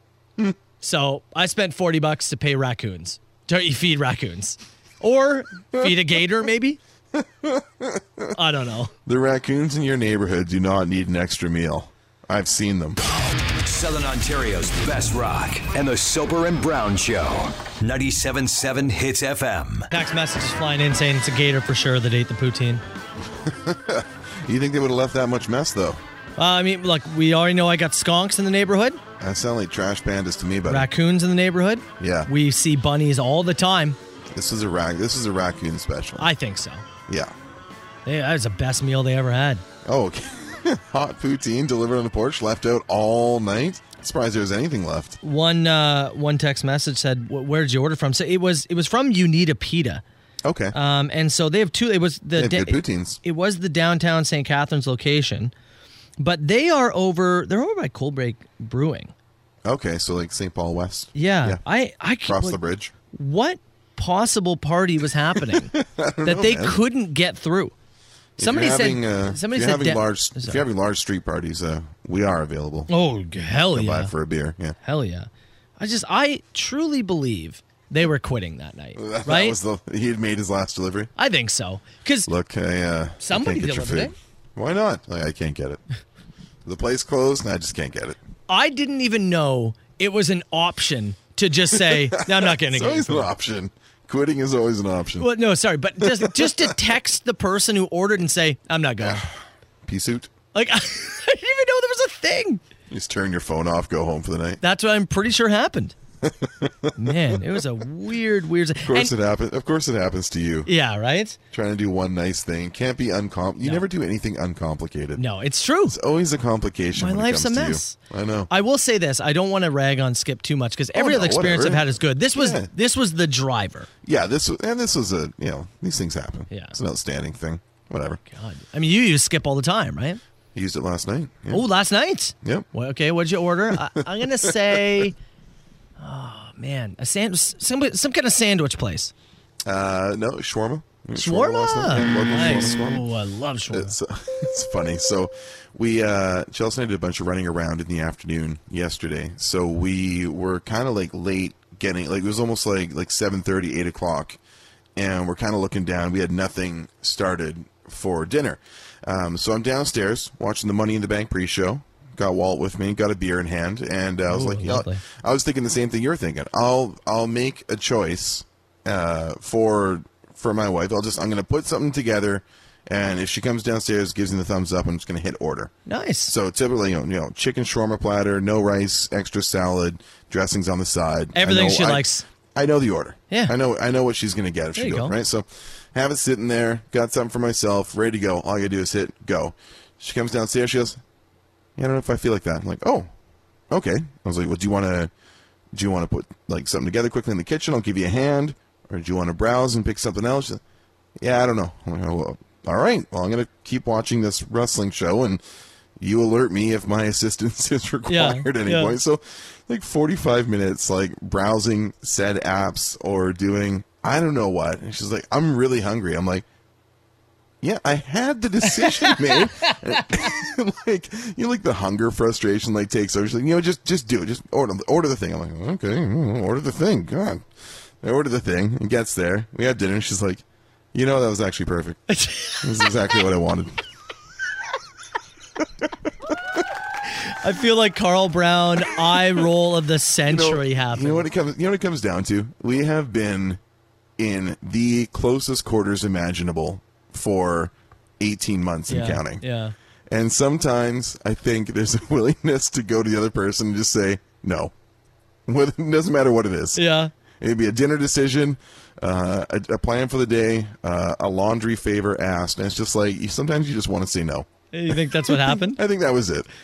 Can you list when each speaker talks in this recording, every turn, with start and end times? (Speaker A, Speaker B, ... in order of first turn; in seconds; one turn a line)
Speaker A: 0.8-6.8
Speaker B: 7.1-8.3
Speaker A: 8.3-8.9
Speaker B: 9.1-13.0
Speaker C: 13.6-19.9
Speaker A: 19.9-22.8
Speaker B: 23.4-26.0
Speaker A: 26.4-29.0
Speaker B: 29.2-30.9
Speaker A: 30.7-34.0
Speaker B: 32.0-32.3
Speaker B: 34.3-36.3
Speaker A: 36.2-36.9
Speaker B: 37.1-37.3
Speaker A: 38.0-39.6
Speaker B: 39.9-45.2
Speaker A: 45.2-50.0
Speaker B: 50.4-50.8
Speaker A: 50.7-55.5
Speaker B: 52.4-53.2
Speaker A: 56.2-59.1
Speaker B: 59.6-61.6
Speaker A: 61.1-62.6
Speaker B: 62.3-62.9
Speaker A: 63.1-65.7
Speaker B: 65.4-66.8
Speaker A: 66.2-67.7
Speaker B: 68.4-72.9
Speaker A: 68.4-70.6
Speaker A: 72.9-74.1
Speaker B: 73.7-74.8
Speaker A: 74.8-79.6
Speaker B: 79.0-81.1
Speaker A: 81.2-82.3
Speaker B: 82.3-85.8
Speaker A: 83.2-84.1
Speaker B: 86.7-88.2
Speaker A: 88.5-93.3
Speaker B: 91.8-95.3
Speaker A: 95.2-99.2
Speaker B: 96.0-96.7
Speaker B: 99.0-100.3
Speaker A: 100.5-102.6
Speaker B: 102.9-104.6
Speaker A: 104.6-106.0
Speaker B: 106.2-106.9
Speaker A: 107.0-109.1
Speaker B: 108.8-110.7
Speaker A: 110.7-111.4
Speaker B: 111.5-115.2
Speaker A: 115.2-116.0
Speaker B: 115.9-118.5
Speaker A: 117.0-118.0
Speaker A: 118.5-123.9
Speaker B: 120.9-122.7
Speaker B: 124.0-128.2
Speaker A: 126.5-126.8
Speaker A: 128.2-130.2
Speaker B: 130.5-131.7
Speaker A: 131.5-135.2
Speaker B: 132.4-132.7
Speaker B: 134.0-134.8
Speaker A: 136.0-139.1
Speaker B: 139.7-143.0
Speaker A: 141.2-143.9
Speaker B: 143.7-154.4
Speaker B: 155.0-175.7
Speaker A: 164.3-165.0
Speaker A: 175.9-176.3
Speaker B: 176.3-191.0
Speaker A: 181.3-182.2
Speaker A: 184.8-185.2
Speaker B: 191.8-193.1
Speaker B: 193.7-195.1
Speaker B: 195.7-200.6
Speaker B: 201.2-205.4
Speaker B: 206.0-216.5
Speaker A: 208.1-209.0
Speaker B: 217.6-227.5
Speaker A: 218.8-219.7
Speaker B: 228.0-232.0
Speaker A: 232.1-232.9
Speaker B: 232.6-233.8
Speaker A: 237.3-241.2
Speaker B: 240.3-243.6
Speaker B: 244.2-249.4
Speaker A: 248.9-249.8
Speaker B: 250.1-254.7
Speaker B: 255.5-256.8
Speaker A: 256.8-257.1
Speaker B: 257.4-266.5
Speaker A: 264.7-265.8